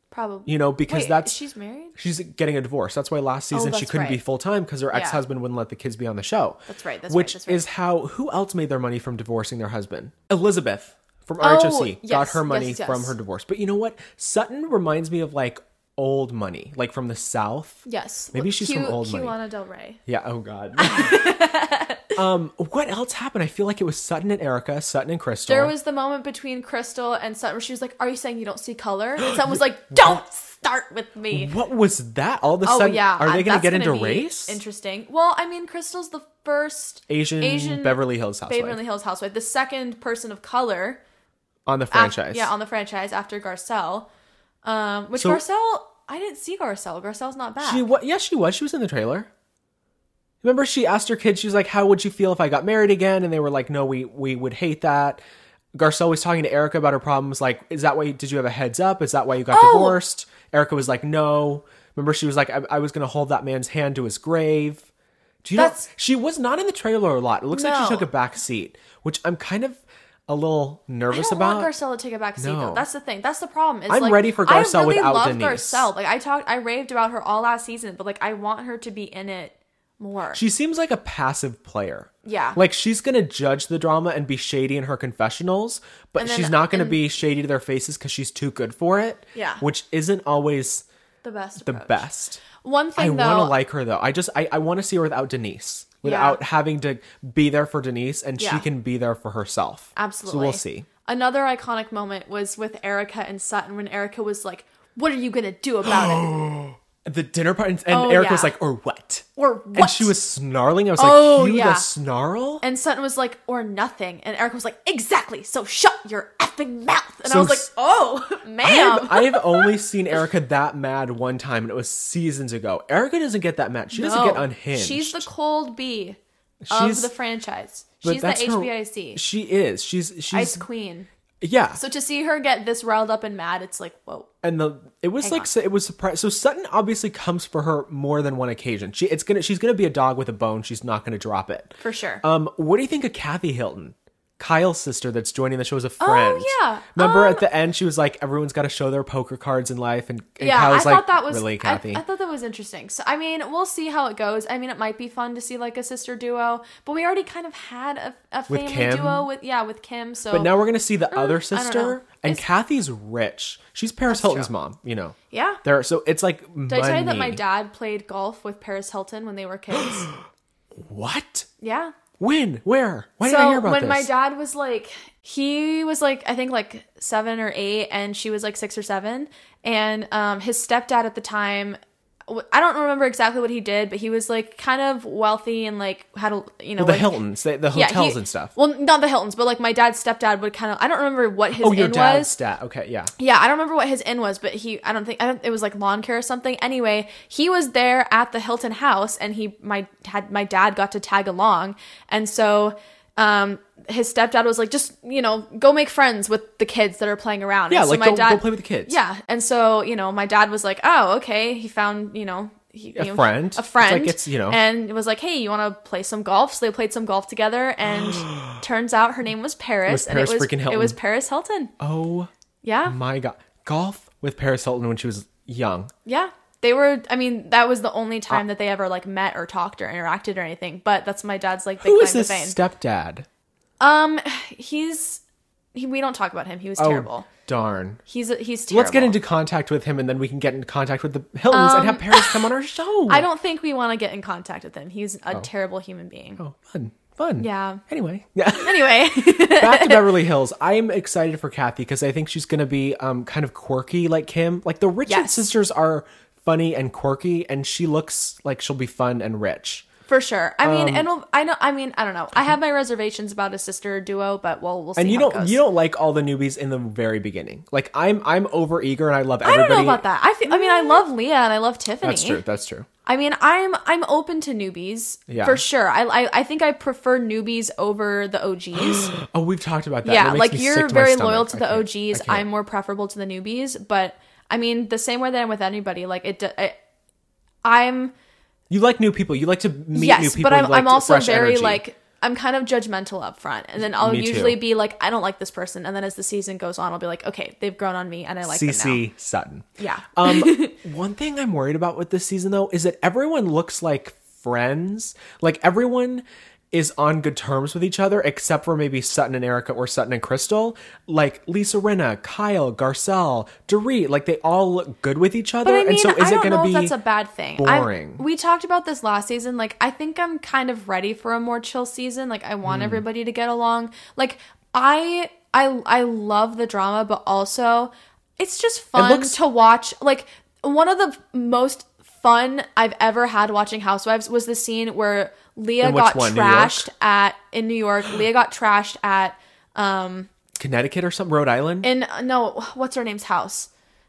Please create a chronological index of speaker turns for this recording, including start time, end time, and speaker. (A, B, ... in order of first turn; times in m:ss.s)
0:00.1-0:02.0 A
0:00.5-0:01.4 B
0:02.0-0:19.4 B
0:03.5-0:04.2 A
0:04.9-0:05.2 A
0:06.7-0:07.6 A
0:11.4-0:13.2 A
0:17.9-0:20.0 A
0:20.1-0:21.3 B
0:20.8-0:22.2 A
0:22.2-0:25.7 B
0:25.5-0:31.5 A
0:29.2-0:30.2 B
0:31.3-0:34.6 B
0:32.6-0:41.0 A
0:37.1-0:38.8 B
0:41.7-0:42.5 B
0:41.9-0:44.1 A
0:44.6-0:47.9 A
0:45.2-0:45.4 B
0:47.6-0:49.3 B
0:50.4-0:55.2 B
0:55.8-1:04.9 B
0:59.5-1:00.0 A
1:05.4-1:11.7 B
1:05.6-1:05.8 A
1:07.5-1:08.1 A
1:11.1-1:20.4 A
1:12.4-1:12.8 B
1:13.9-1:15.9 B
1:20.3-1:30.8 B
1:22.2-1:22.6 A
1:26.2-1:27.0 A
1:29.4-1:29.6 A
1:31.2-1:33.6 A
1:31.6-1:32.4 B
1:33.0-1:40.9 B
1:36.0-1:36.4 A
1:38.4-1:38.7 A
1:40.0-1:46.4 A
1:45.8-1:52.6 B
1:47.9-1:48.6 A
1:49.4-1:50.2 A
1:51.0-1:51.9 A
1:52.6-1:59.7 A
1:57.3-1:57.7 B
1:58.6-2:05.3 B
2:03.9-2:06.2 A
2:06.6-2:07.1 B
2:06.7-2:09.2 A
2:08.0-2:10.6 B
2:10.3-2:11.1 A
2:11.4-2:11.8 B
2:11.8-2:14.3 A
2:14.4-2:32.0 B
2:15.2-2:15.5 A
2:21.8-2:22.2 A
2:26.0-2:27.5 A
2:30.4-2:40.5 A
2:38.5-2:39.3 B
2:40.3-2:47.4 B
2:41.1-2:42.4 A
2:44.1-2:44.5 A
2:45.3-2:45.6 A
2:46.7-2:50.1 A
2:49.8-2:50.1 B
2:50.8-2:51.5 B
2:51.6-2:52.0 A
2:52.2-2:54.1 B
2:53.2-3:12.4 A
3:06.8-3:08.5 B
3:11.6-3:13.1 B
3:13.2-3:41.7 A
3:27.7-3:29.0 B
3:33.0-3:34.6 B
3:39.9-3:41.0 B
3:41.8-3:42.3 B
3:42.6-3:43.0 A
3:42.9-3:45.9 B
3:46.1-3:52.6 A
3:51.8-3:53.3 B
3:53.8-3:55.2 A
3:55.8-3:57.3 A
3:56.8-3:58.0 B
3:58.1-3:59.2 A
3:58.7-4:03.3 B
4:01.5-4:02.5 A
4:03.1-4:06.4 A
4:06.4-4:19.9 B
4:07.4-4:07.8 A
4:08.6-4:10.2 A
4:15.1-4:15.4 A
4:20.1-4:25.6 A
4:20.6-4:21.1 B
4:25.0-4:31.0 B
4:29.4-4:32.4 A
4:32.0-4:32.9 B
4:33.1-4:39.2 A
4:35.3-4:35.6 B
4:38.8-4:42.5 B
4:40.0-4:46.8 A
4:47.6-4:48.1 A
4:48.7-4:51.8 B
4:49.9-4:59.0 A
4:53.8-4:54.6 B
4:58.4-5:17.0 B
4:59.8-5:00.8 A
5:15.6-5:40.3 A
5:17.6-5:18.2 B
5:22.6-5:23.0 B
5:29.0-5:29.4 B
5:35.8-5:36.9 B
5:40.6-5:41.9 B
5:41.8-5:43.7 A